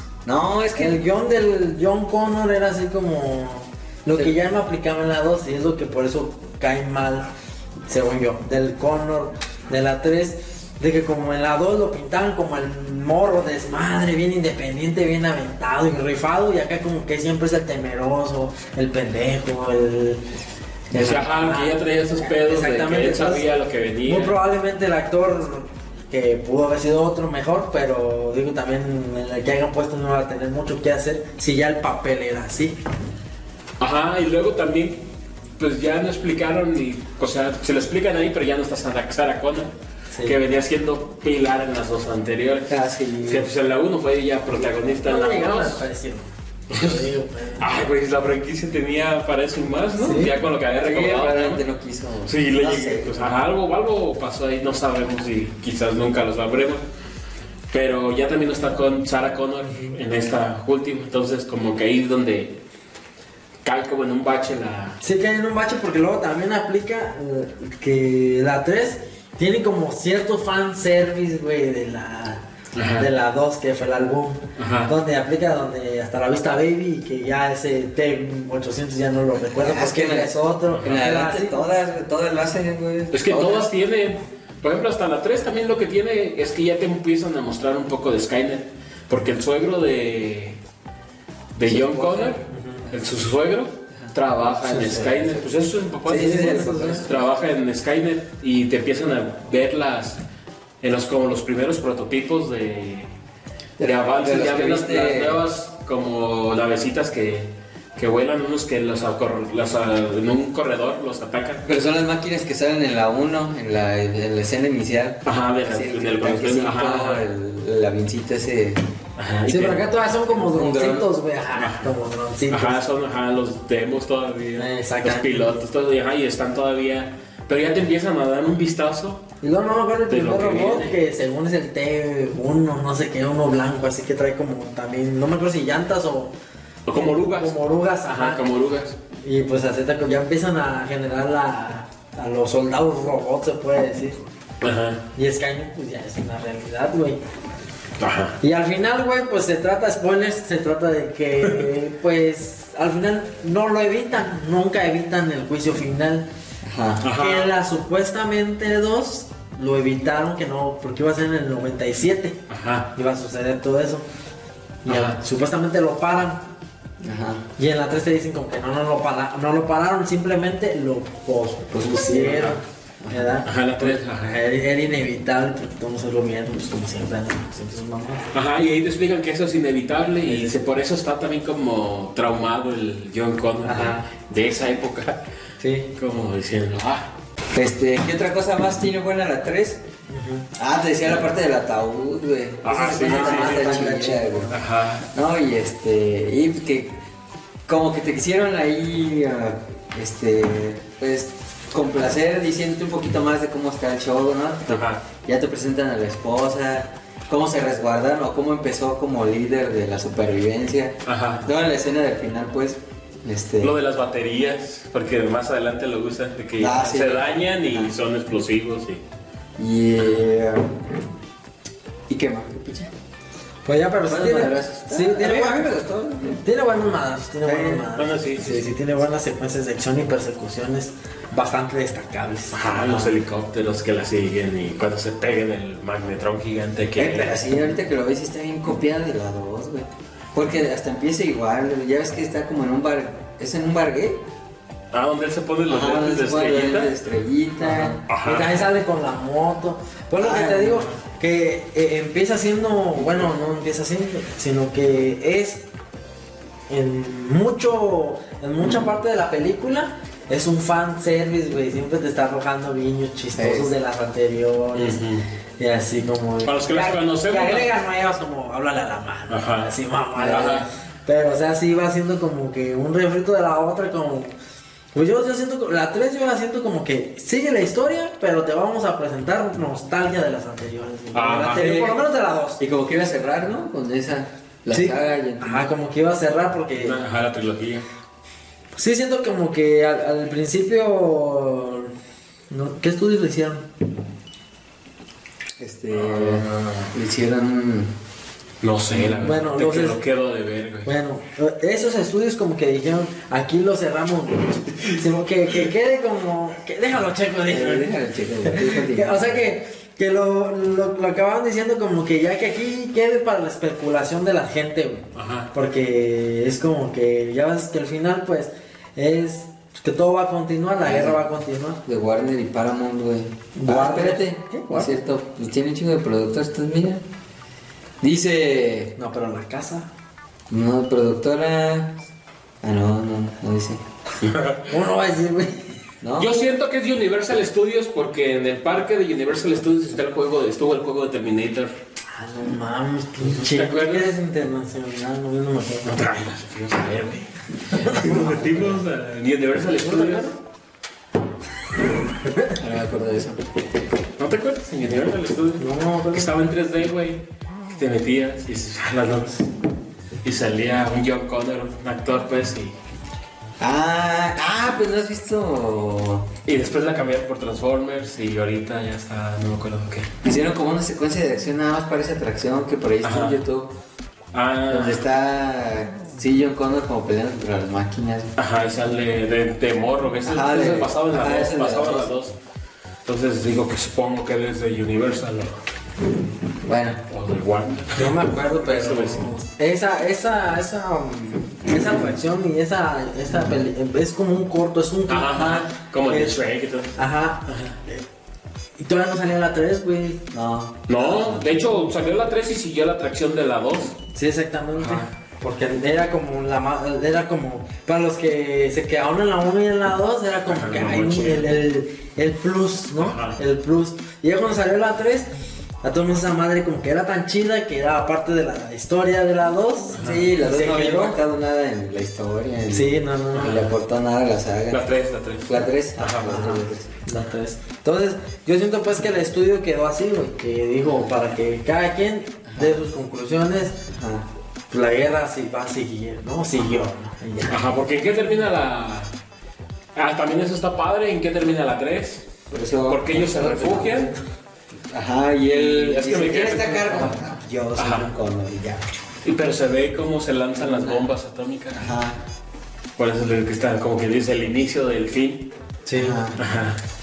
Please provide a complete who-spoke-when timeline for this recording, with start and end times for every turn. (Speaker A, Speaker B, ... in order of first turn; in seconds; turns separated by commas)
Speaker A: 0.2-1.0, Speaker B: 0.7-7.3, Speaker B: 7.9-20.2, Speaker B: 20.9-23.5, Speaker C: 20.9-24.4, Speaker B: 24.0-32.8, Speaker C: 33.8-35.0, Speaker C: 35.6-39.7, Speaker B: 40.1-40.4, Speaker C: 40.2-45.8, Speaker A: 42.7-43.5, Speaker B: 45.0-47.7, Speaker C: 46.7-51.6, Speaker B: 50.0-50.4, Speaker A: 50.7-53.2, Speaker C: 52.3-56.8, Speaker C: 57.7-62.6, Speaker C: 63.6-65.0, Speaker B: 65.0-72.4, Speaker C: 72.8-73.1, Speaker B: 73.0-81.7, Speaker C: 74.6-74.9, Speaker A: 79.5-83.7, Speaker C: 80.7-81.0, Speaker C: 83.1-90.6, Speaker C: 91.6-100.2, Speaker A: 91.7-93.0, Speaker B: 92.5-92.8, Speaker B: 94.6-95.2, Speaker A: 96.1-97.2, Speaker B: 96.1-97.1, Speaker C: 100.8-103.1, Speaker A: 103.8-105.4, Speaker C: 103.8-111.6, Speaker A: 111.6-118.8, Speaker C: 115.2-117.3, Speaker C: 119.2-119.9, Speaker B: 119.5-122.8, Speaker A: 120.3-121.1, Speaker C: 121.5-121.9, Speaker C: 122.5-129.2, Speaker B: 124.6-125.6, Speaker B: 129.4-136.3, Speaker C: 130.1-131.0, Speaker C: 136.9-139.0, Speaker B: 137.2-138.4, Speaker B: 139.2-144.2, Speaker C: 144.6-145.0, Speaker B: 145.2-147.2, Speaker C: 148.0-148.4, Speaker B: 148.4-156.3, Speaker A: 156.6-157.0, Speaker C: 157.0-157.5, Speaker B: 157.1-162.4, Speaker C: 162.5-162.9, Speaker B: 162.9-164.1, Speaker B: 164.8-166.4, Speaker C: 164.9-165.2, Speaker A: 167.0-167.4, Speaker B: 167.6-178.3, Speaker A: 171.7-172.5, Speaker C: 172.1-172.6, Speaker A: 173.0-173.3, Speaker C: 173.4-174.4, Speaker C: 178.3-185.2, Speaker B: 180.2-180.6, Speaker B: 183.6-184.1, Speaker B: 185.6-185.9, Speaker C: 186.0-187.1, Speaker A: 187.5-189.8, Speaker B: 190.1-190.5, Speaker A: 190.6-194.6, Speaker C: 192.6-195.1, Speaker B: 193.0-194.6, Speaker A: 195.1-196.9, Speaker A: 197.7-213.7, Speaker C: 204.7-205.0, Speaker C: 211.1-211.4, Speaker C: 213.6-219.0, Speaker A: 216.6-217.9, Speaker A: 219.6-220.8, Speaker A: 222.1-222.9, Speaker B: 223.7-225.8, Speaker A: 224.1-226.4, Speaker B: 226.4-232.6, Speaker A: 227.4-228.8, Speaker C: 228.0-228.5, Speaker C: 232.5-237.4, Speaker A: 232.8-233.2, Speaker A: 237.0-244.2, Speaker C: 244.9-246.9, Speaker A: 245.7-248.0, Speaker B: 247.6-255.7, Speaker C: 248.1-248.7, Speaker A: 250.2-250.9, Speaker B: 256.7-265.0, Speaker A: 263.4-263.7, Speaker C: 264.8-265.2, Speaker B: 265.6-274.3, Speaker C: 266.4-267.7, Speaker C: 269.3-270.7, Speaker B: 274.9-282.6, Speaker C: 281.1-281.8, Speaker A: 281.5-282.0, Speaker A: 282.6-285.7, Speaker B: 284.7-287.0, Speaker C: 286.8-287.9, Speaker B: 288.8-291.9, Speaker B: 292.5-293.6, Speaker A: 295.6-297.9, Speaker C: 295.9-296.9, Speaker C: 298.6-300.9, Speaker A: 298.9-299.4, Speaker B: 299.2-300.0, Speaker B: 300.9-307.9, Speaker A: 307.5-309.4, Speaker B: 308.4-321.8, Speaker C: 315.1-315.5, Speaker A: 320.8-321.2, Speaker A: 321.9-327.0, Speaker B: 323.6-324.9, Speaker A: 328.0-328.9, Speaker B: 329.0-329.9, Speaker A: 330.5-332.0, Speaker A: 332.6-333.8, Speaker C: 334.2-334.7, Speaker B: 334.7-335.6, Speaker A: 336.0-336.3, Speaker C: 336.2-341.7, Speaker B: 342.1-346.0, Speaker C: 343.2-344.2, Speaker C: 345.9-350.4, Speaker B: 347.7-348.8, Speaker B: 349.8-350.3, Speaker A: 352.6-353.4, Speaker C: 354.2-357.2, Speaker B: 355.6-356.3, Speaker C: 357.7-359.5, Speaker C: 360.2-362.8, Speaker A: 363.6-366.3, Speaker C: 366.4-370.1, Speaker A: 370.2-373.7, Speaker C: 373.0-373.4, Speaker C: 374.3-375.1, Speaker A: 374.7-378.3, Speaker C: 378.4-382.3, Speaker A: 380.2-382.1, Speaker C: 383.1-385.5, Speaker A: 386.6-387.0, Speaker C: 387.1-389.4, Speaker B: 387.9-396.4, Speaker C: 395.1-397.8, Speaker B: 397.0-398.0, Speaker B: 398.8-400.2, Speaker A: 400.3-401.5, Speaker C: 400.9-403.9, Speaker B: 404.1-415.3, Speaker C: 404.8-405.1, Speaker C: 410.5-411.5, Speaker C: 413.0-413.4, Speaker B: 415.8-421.2, Speaker A: 419.9-424.9, Speaker C: 420.0-420.3, Speaker B: 422.7-423.7, Speaker C: 423.4-423.7, Speaker C: 424.7-426.5, Speaker A: 425.4-426.9, Speaker B: 426.3-433.8, Speaker A: 432.5-432.8, Speaker A: 433.9-434.3, Speaker B: 434.7-437.6, Speaker C: 437.5-439.1, Speaker C: 439.9-442.3, Speaker A: 442.5-444.2, Speaker C: 442.9-444.1, Speaker A: 444.9-448.9, Speaker C: 445.5-447.2, Speaker C: 447.8-448.1, Speaker C: 449.2-451.9, Speaker A: 450.6-451.1, Speaker A: 451.8-452.2, Speaker C: 453.0-455.5, Speaker B: 455.9-456.2, Speaker A: 455.9-456.4, Speaker C: 456.4-456.8